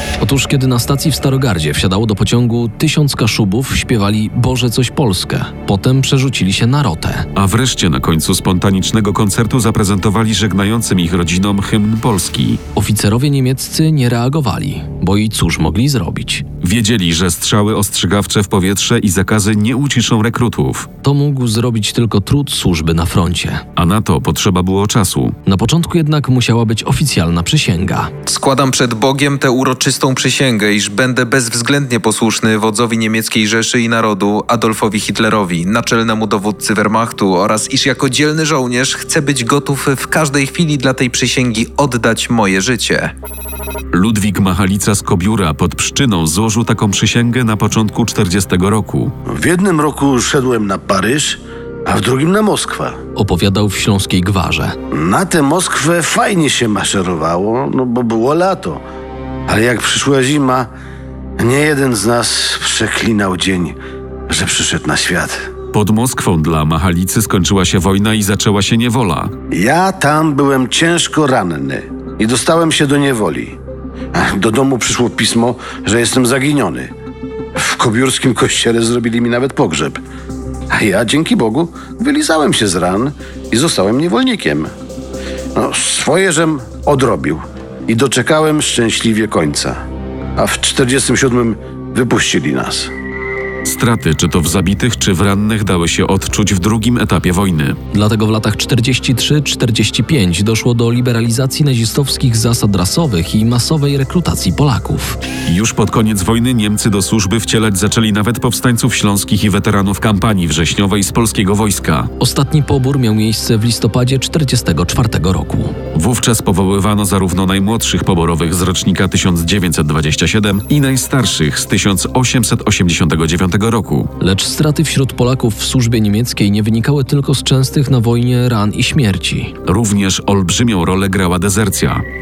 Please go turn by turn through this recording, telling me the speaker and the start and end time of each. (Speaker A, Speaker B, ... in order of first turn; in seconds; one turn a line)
Speaker A: 0.2-7.3
Speaker B: 7.3-12.6
Speaker A: 12.7-16.4
Speaker B: 16.6-20.9
Speaker A: 21.0-23.6
Speaker B: 23.8-25.4
Speaker A: 25.4-28.1
Speaker C: 28.2-43.1
Speaker B: 43.9-49.1
Speaker D: 49.3-53.0
Speaker A: 53.1-54.8
Speaker D: 54.9-58.8
Speaker D: 59.5-60.7
Speaker D: 61.4-63.8
Speaker D: 64.3-65.5
Speaker B: 65.7-69.3
Speaker D: 69.5-73.6
Speaker D: 74.1-76.9
Speaker D: 77.5-80.0
Speaker D: 80.7-84.7
Speaker D: 85.5-89.8
Speaker D: 90.4-92.9
Speaker B: 93.6-97.8
Speaker A: 97.9-105.2
Speaker B: 105.5-112.1
Speaker A: 112.2-115.8
Speaker B: 115.9-124.1
Speaker A: 124.2-129.6
Speaker B: 129.7-132.0